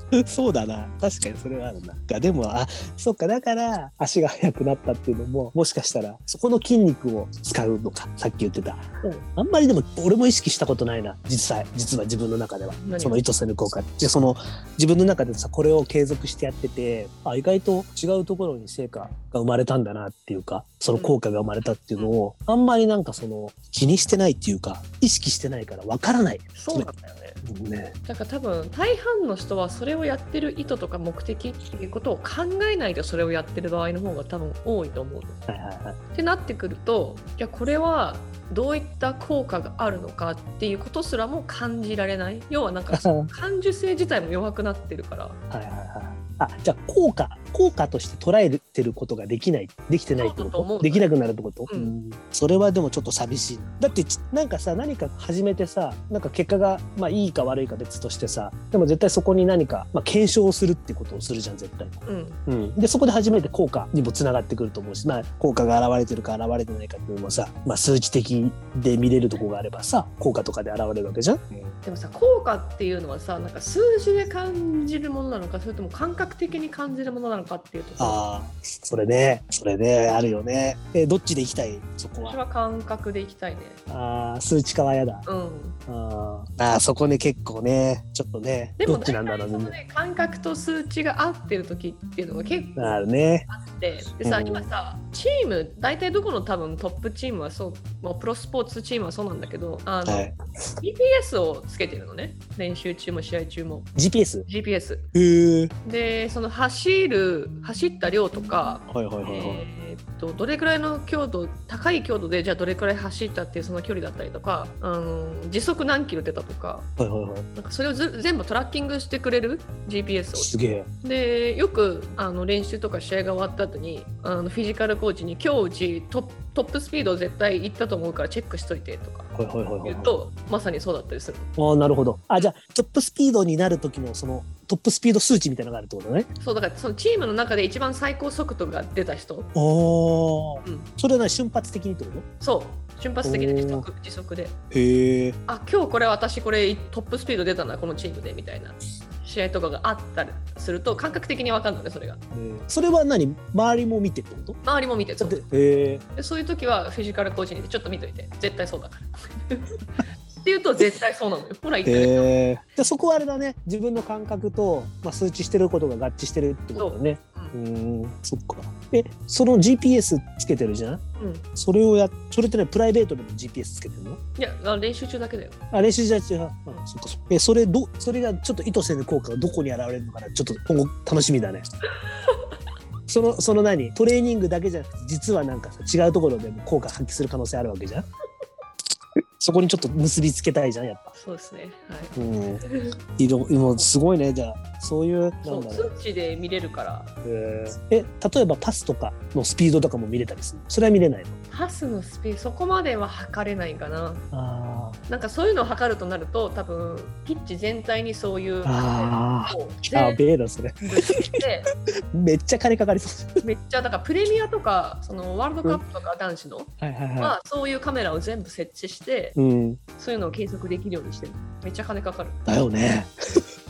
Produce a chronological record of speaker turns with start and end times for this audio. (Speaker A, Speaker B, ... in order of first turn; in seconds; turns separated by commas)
Speaker A: 0.2-26.9, Speaker B: 12.8-13.2, Speaker B: 20.9-22.1, Speaker B: 26.6-27.4, Speaker A: 27.4-27.9, Speaker B: 28.1-35.4, Speaker A: 35.5-36.0, Speaker B: 36.1-45.4, Speaker A: 42.9-43.3, Speaker A: 45.5-71.8, Speaker B: 50.2-51.1, Speaker B: 51.7-52.0, Speaker B: 62.0-62.4, Speaker B: 71.8-78.2, Speaker A: 78.0-82.4, Speaker B: 82.2-83.8, Speaker A: 83.9-85.3, Speaker B: 85.3-85.8, Speaker A: 85.9-89.8, Speaker B: 88.8-103.9, Speaker A: 92.8-93.5, Speaker A: 94.2-94.7, Speaker A: 100.0-100.4, Speaker A: 104.0-104.5, Speaker B: 104.5-105.1, Speaker A: 105.2-105.7, Speaker B: 105.8-116.9, Speaker A: 108.9-109.6, Speaker A: 117.0-117.5, Speaker B: 117.6-120.5, Speaker A: 120.3-120.9, Speaker B: 121.0-131.5, Speaker A: 129.4-130.1, Speaker A: 131.6-136.3, Speaker B: 136.4-139.5, Speaker A: 139.6-142.3, Speaker B: 140.6-140.9, Speaker B: 142.4-144.6, Speaker A: 143.2-143.9, Speaker A: 144.7-145.4, Speaker B: 145.5-152.2, Speaker A: 152.3-154.6, Speaker B: 154.6-155.4, Speaker A: 155.2-156.0, Speaker B: 156.2-159.7, Speaker B: 160.4-162.3, Speaker A: 161.9-171.0, Speaker B: 166.8-167.6, Speaker B: 171.2-171.5, Speaker A: 171.6-174.2, Speaker B: 174.4-175.6, Speaker A: 175.7-181.7, Speaker B: 182.3-182.5, Speaker A: 183.1-188.1, Speaker A: 189.4-191.1, Speaker B: 191.2-193.0, Speaker A: 192.2-192.6, Speaker A: 193.2-195.9, Speaker B: 195.4-197.1, Speaker A: 197.2-201.3, Speaker B: 201.5-204.2, Speaker A: 204.3-205.0, Speaker B: 205.1-210.2, Speaker A: 208.7-210.8, Speaker B: 210.8-211.7, Speaker A: 212.2-213.4, Speaker B: 213.4-219.4, Speaker A: 216.8-217.3, Speaker A: 219.4-219.8, Speaker B: 220.0-222.4, Speaker A: 222.5-223.1